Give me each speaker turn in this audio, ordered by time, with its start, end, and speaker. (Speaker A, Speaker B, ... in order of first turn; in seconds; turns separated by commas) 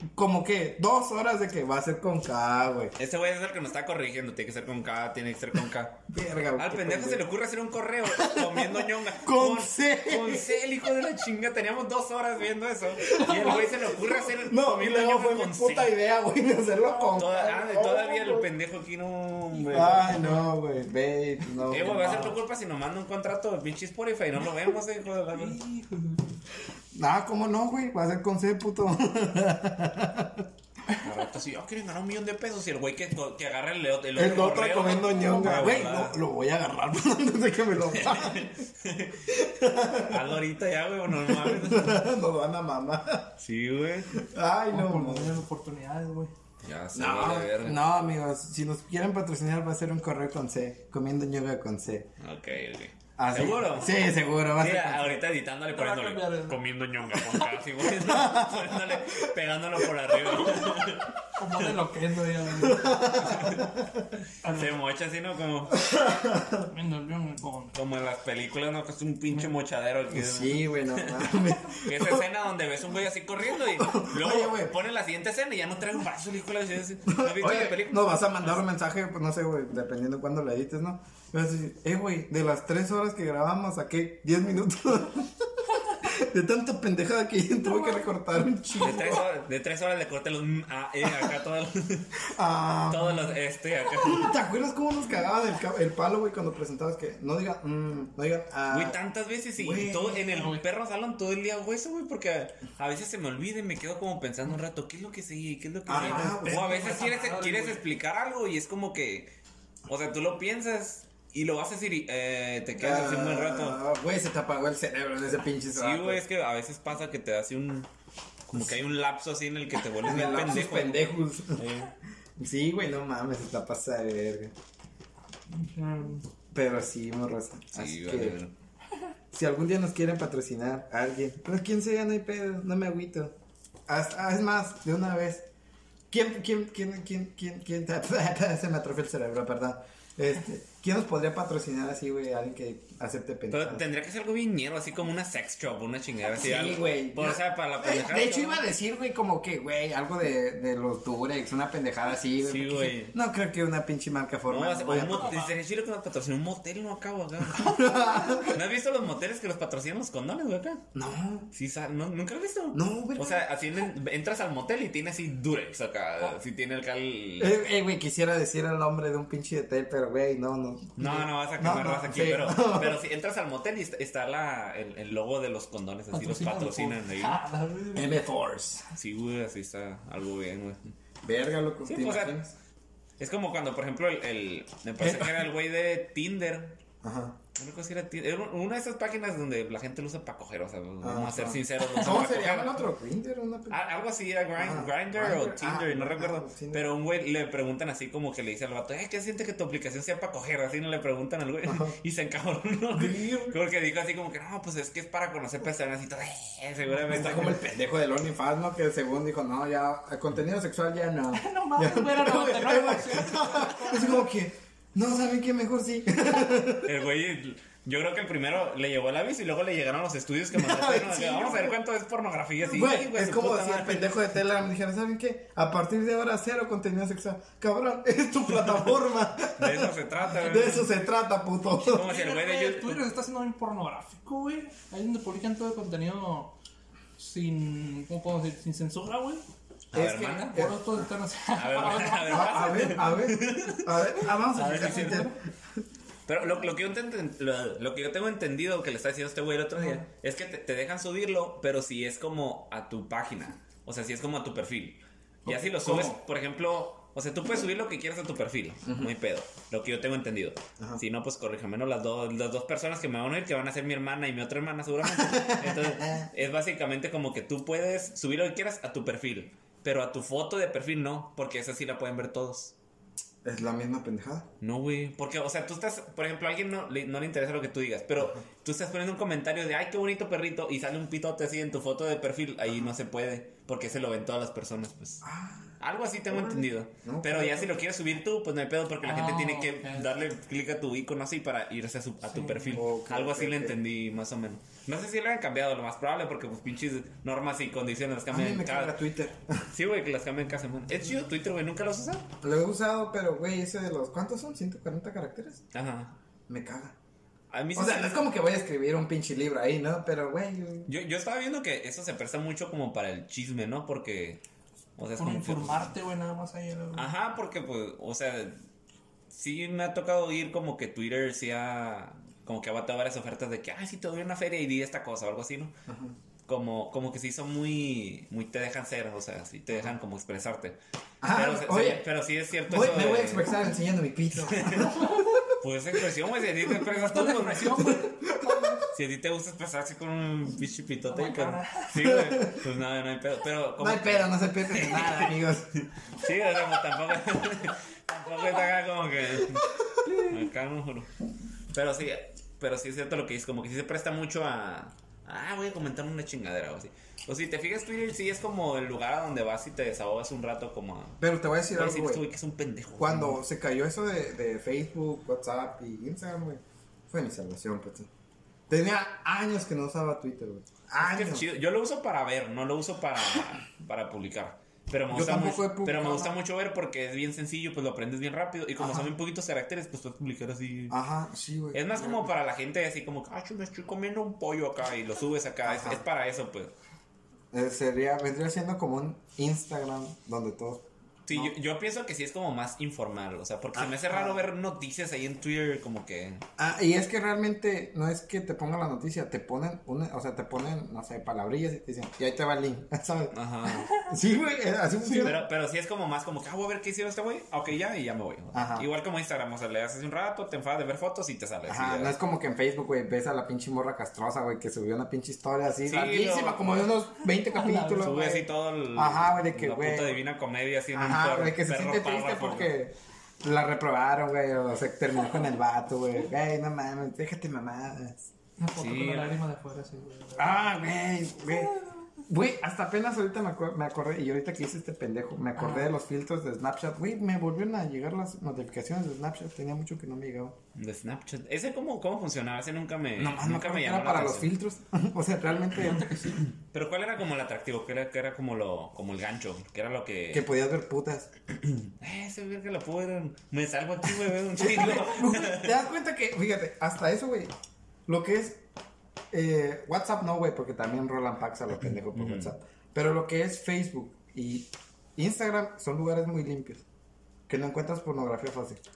Speaker A: 0.1-2.9, Speaker B: 3.0-6.0, Speaker A: 6.1-7.2, Speaker B: 6.5-15.9, Speaker A: 8.1-10.5, Speaker C: 13.1-14.1, Speaker A: 13.2-13.5, Speaker A: 14.4-18.5, Speaker B: 17.1-20.2, Speaker A: 19.7-22.4, Speaker B: 21.7-25.6, Speaker C: 25.3-26.3, Speaker A: 26.9-30.4, Speaker B: 31.0-36.2, Speaker A: 34.1-38.5, Speaker C: 35.0-35.9, Speaker B: 37.9-39.3, Speaker A: 39.3-40.2, Speaker B: 40.1-42.1, Speaker A: 41.2-43.3, Speaker B: 43.4-44.1, Speaker A: 44.1-45.4, Speaker C: 44.7-46.3, Speaker B: 46.6-47.8, Speaker A: 46.9-52.1, Speaker B: 52.2-54.0, Speaker A: 53.2-55.2, Speaker B: 54.5-61.8, Speaker C: 55.7-56.6, Speaker A: 57.9-58.7, Speaker C: 61.4-63.3, Speaker A: 62.6-63.9, Speaker B: 63.2-63.6, Speaker C: 64.4-64.7, Speaker B: 64.5-65.8, Speaker A: 65.7-66.7, Speaker C: 66.7-67.7, Speaker B: 67.7-78.6, Speaker A: 70.1-72.2, Speaker A: 73.8-74.7, Speaker A: 77.1-89.2, Speaker B: 88.8-92.2, Speaker A: 92.3-93.2, Speaker B: 92.9-94.4, Speaker A: 93.9-99.0, Speaker B: 98.7-109.3, Speaker A: 99.6-100.2, Speaker C: 100.2-100.6, Speaker A: 105.8-106.8, Speaker C: 105.9-107.8, Speaker B: 109.9-113.8, Speaker A: 112.8-116.2, Speaker B: 115.7-117.9, Speaker B: 118.5-121.9, Speaker A: 120.0-121.7, Speaker A: 122.4-124.5, Speaker C: 125.5-126.2, Speaker A: 126.5-128.4, Speaker B: 127.7-128.5, Speaker A: 129.3-133.3, Speaker A: 133.9-135.5, Speaker A: 136.1-143.8, Speaker B: 143.5-148.6, Speaker A: 146.3-155.4, Speaker B: 152.4-153.1, Speaker B: 154.5-160.8, Speaker C: 155.0-155.5, Speaker A: 157.5-158.6, Speaker A: 160.9-161.5, Speaker B: 161.5-167.6, Speaker A: 162.7-163.4, Speaker A: 167.4-173.0, Speaker B: 171.0-177.4, Speaker C: 176.1-178.2, Speaker A: 177.9-178.8, Speaker B: 178.9-180.9, Speaker A: 181.2-182.5, Speaker B: 181.8-182.4, Speaker B: 183.2-186.8, Speaker A: 185.0-185.4, Speaker A: 187.0-187.4, Speaker B: 187.6-192.8, Speaker A: 191.0-193.8, Speaker B: 193.7-207.6, Speaker A: 194.6-196.8, Speaker A: 201.7-201.9, Speaker A: 202.9-203.6, Speaker A: 207.1-216.9, Speaker C: 211.3-214.3, Speaker B: 216.8-224.1, Speaker A: 220.5-221.8, Speaker A: 222.7-232.1, Speaker B: 229.5-230.9, Speaker C: 231.8-236.5, Speaker B: 231.9-233.0, Speaker C: 237.2-239.4, Speaker B: 239.9-240.6, Speaker A: 239.9-241.0, Speaker C: 240.0-243.0, Speaker B: 241.5-244.0, Speaker A: 242.2-245.8, Speaker B: 244.5-245.3, Speaker C: 244.6-245.3, Speaker B: 246.3-272.7, Speaker A: 255.4-256.2, Speaker A: 258.8-259.1, Speaker A: 265.1-266.3, Speaker A: 273.4-274.5, Speaker B: 274.6-285.2, Speaker A: 285.2-285.7, Speaker B: 285.8-298.9, Speaker A: 286.3-287.8, Speaker C: 289.0-290.1, Speaker C: 292.3-292.9, Speaker A: 292.7-293.7, Speaker A: 298.3-299.7, Speaker B: 299.7-302.3, Speaker A: 302.4-305.6, Speaker B: 305.7-306.1, Speaker A: 306.5-306.9, Speaker B: 307.5-308.3, Speaker A: 307.7-310.9, Speaker B: 310.9-314.4, Speaker B: 315.0-315.9, Speaker C: 315.2-317.1, Speaker B: 316.9-318.6, Speaker B: 319.3-325.7, Speaker A: 325.9-326.1, Speaker B: 326.4-333.6, Speaker A: 331.2-332.0, Speaker A: 332.6-335.0, Speaker B: 334.4-338.1, Speaker C: 334.7-335.4, Speaker C: 336.7-338.8, Speaker A: 338.1-338.8, Speaker B: 338.9-351.1, Speaker C: 341.1-342.0, Speaker A: 342.0-342.6, Speaker A: 343.8-345.7, Speaker B: 351.7-361.2, Speaker A: 361.2-362.2, Speaker B: 361.7-363.4, Speaker A: 363.0-368.1, Speaker A: 368.7-371.5, Speaker B: 371.0-380.9, Speaker A: 375.1-376.3, Speaker A: 378.8-379.1, Speaker A: 380.9-382.3, Speaker B: 381.7-386.7, Speaker A: 385.6-386.0, Speaker A: 387.5-391.5, Speaker B: 391.2-396.4, Speaker A: 393.7-394.4, Speaker A: 396.6-405.4, Speaker B: 403.3-403.9, Speaker C: 405.0-405.3, Speaker B: 405.2-412.1, Speaker A: 408.5-408.9, Speaker A: 411.6-420.2, Speaker B: 415.8-416.6, Speaker C: 417.5-418.2, Speaker B: 418.0-422.7, Speaker A: 420.9-428.3, Speaker C: 428.6-430.8, Speaker B: 428.8-429.4, Speaker A: 430.4-431.7, Speaker A: 432.2-440.6, Speaker C: 435.6-435.9, Speaker B: 440.7-444.5, Speaker A: 443.2-446.1, Speaker C: 445.7-446.4, Speaker B: 446.6-450.5, Speaker A: 450.3-451.3, Speaker B: 451.8-455.7, Speaker A: 454.6-457.5, Speaker A: 458.1-458.6, Speaker A: 459.3-466.8, Speaker B: 462.1-462.5, Speaker A: 467.5-468.8